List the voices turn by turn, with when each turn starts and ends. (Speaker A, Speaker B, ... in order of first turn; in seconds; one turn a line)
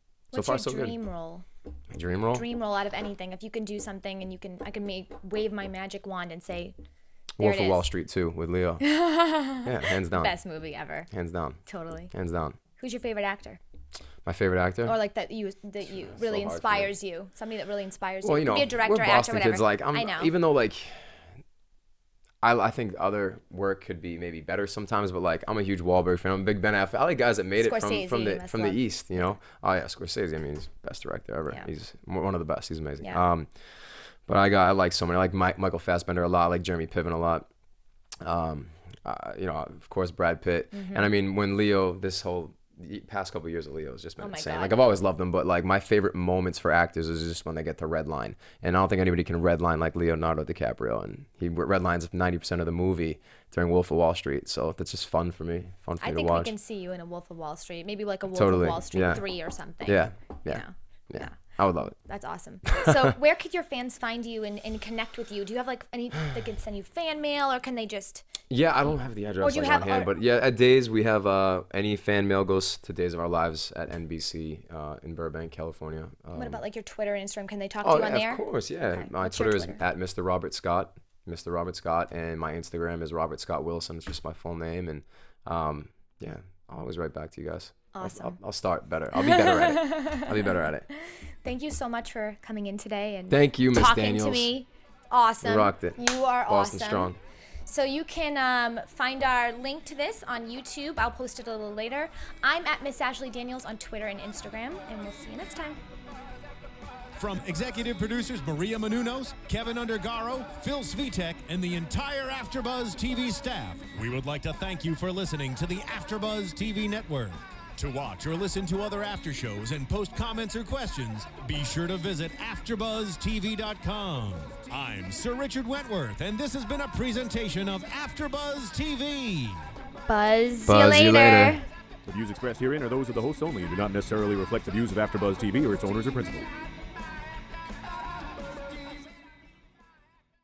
Speaker A: 0.3-1.4
Speaker B: 0.3-0.9
Speaker B: 1.9-2.4
Speaker A: 2.3-6.7
Speaker A: 7.4-7.8
Speaker B: 7.4-8.8
Speaker A: 8.8-11.1
Speaker B: 9.6-10.3
Speaker B: 11.1-11.6
Speaker A: 11.7-12.1
Speaker B: 12.1-12.6
Speaker A: 12.8-13.6
Speaker B: 14.2-14.9
Speaker A: 14.8-20.3
Speaker B: 15.8-16.9
Speaker B: 18.2-21.2
Speaker B: 22.4-37.5
Speaker A: 27.6-29.4
Speaker B: 38.2-56.5
Speaker A: 40.7-41.1
Speaker A: 44.2-44.8
Speaker A: 56.0-61.4
Speaker B: 58.3-59.2
Speaker B: 59.8-61.9
Speaker A: 61.9-68.3
Speaker B: 62.7-63.1
Speaker B: 68.5-76.6
Speaker A: 69.4-70.1
Speaker A: 76.3-79.8
Speaker B: 77.8-90.9
Speaker A: 87.9-88.4
Speaker A: 89.1-97.1
Speaker B: 93.3-94.5
Speaker B: 95.4-97.2
Speaker A: 97.7-105.8
Speaker C: 107.2-129.7
Speaker A: 130.1-131.7
Speaker B: 130.7-131.6
Speaker D: 132.1-136.5